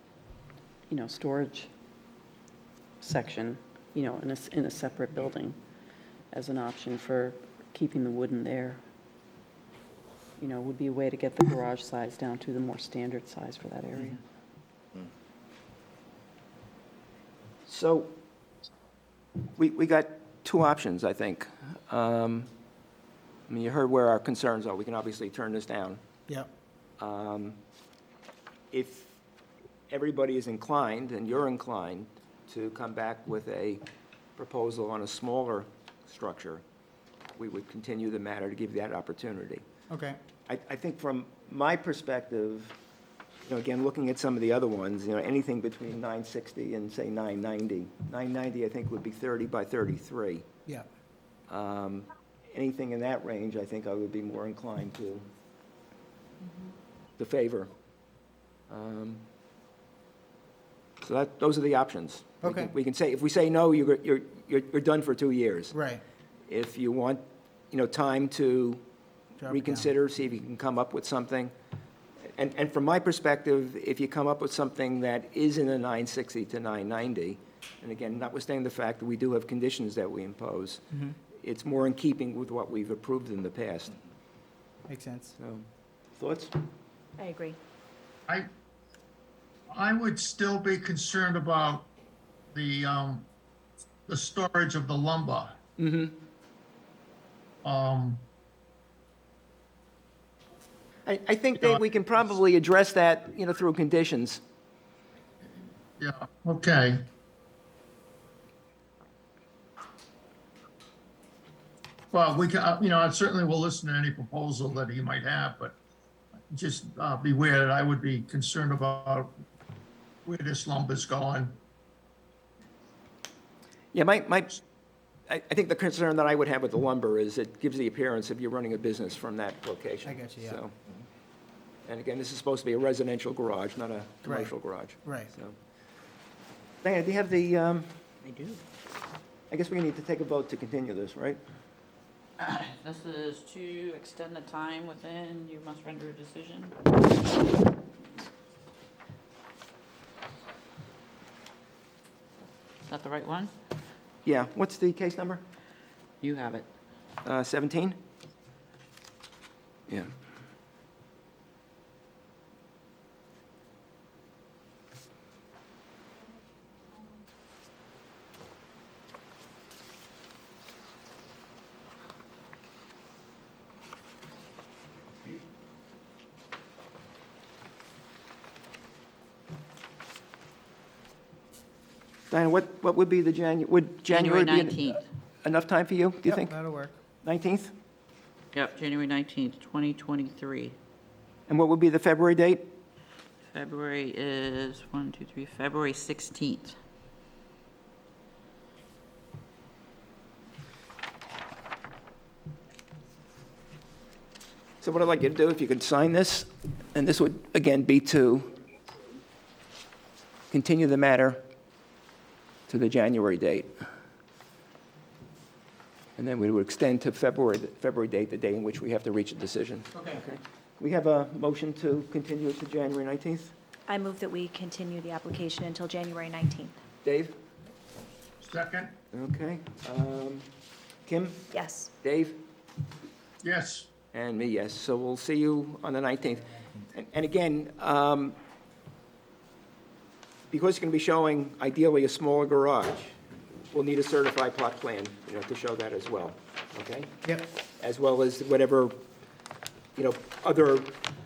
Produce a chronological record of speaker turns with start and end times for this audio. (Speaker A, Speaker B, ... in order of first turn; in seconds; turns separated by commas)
Speaker A: 0.9-1.7, Speaker A: 3.0-5.6, Speaker A: 6.3-8.8, Speaker A: 10.4-14.2, Speaker B: 17.7-18.2, Speaker B: 19.6-22.5, Speaker B: 23.5-26.0, Speaker B: 27.0-27.6, Speaker B: 28.7-29.2, Speaker B: 29.9-33.8, Speaker B: 34.4-36.6, Speaker B: 37.4-39.6, Speaker C: 39.9-40.2, Speaker B: 40.5-42.8, Speaker B: 43.5-50.5, Speaker B: 51.5-55.3, Speaker B: 57.2-57.7, Speaker B: 58.7-59.3, Speaker B: 61.0-65.7, Speaker C: 62.4-62.7, Speaker C: 65.7-66.0, Speaker B: 66.5-68.8, Speaker C: 69.4-69.9, Speaker B: 69.5-71.5, Speaker B: 72.3-84.0, Speaker C: 80.9-81.2, Speaker C: 84.9-85.4, Speaker B: 85.4-86.5, Speaker D: 87.2-87.6, Speaker E: 89.7-91.9, Speaker E: 92.5-93.3, Speaker E: 94.1-95.6, Speaker B: 95.8-96.2, Speaker E: 97.6-98.2, Speaker B: 101.1-104.4, Speaker E: 106.0-107.1, Speaker E: 112.1-115.8, Speaker E: 116.5-119.3, Speaker E: 120.2-121.6, Speaker B: 123.9-124.6, Speaker B: 125.3-130.7, Speaker C: 130.0-130.6, Speaker B: 131.9-135.6, Speaker C: 134.2-135.3, Speaker B: 136.8-138.0, Speaker F: 138.2-138.6, Speaker B: 139.5-141.4, Speaker F: 142.4-146.8, Speaker F: 152.9-153.5, Speaker B: 154.2-155.4, Speaker F: 156.2-156.7, Speaker B: 157.2-158.0, Speaker B: 182.3-184.8, Speaker F: 184.1-185.0, Speaker B: 185.4-186.5, Speaker C: 186.2-186.9, Speaker B: 187.2-187.7, Speaker F: 188.5-190.8, Speaker B: 191.5-192.7, Speaker F: 193.5-196.8, Speaker B: 204.8-208.6, Speaker B: 210.5-211.4, Speaker B: 212.7-213.7, Speaker B: 216.2-223.5, Speaker C: 219.9-220.3, Speaker D: 223.9-226.8, Speaker B: 227.0-227.3, Speaker E: 228.4-229.0, Speaker B: 229.1-230.5, Speaker B: 231.1-231.5, Speaker D: 231.5-231.9, Speaker B: 232.0-232.4, Speaker E: 233.4-233.9, Speaker B: 234.1-238.4, Speaker B: 240.5-243.2, Speaker B: 243.7-247.1, Speaker B: 247.8-249.0, Speaker B: 250.0-251.0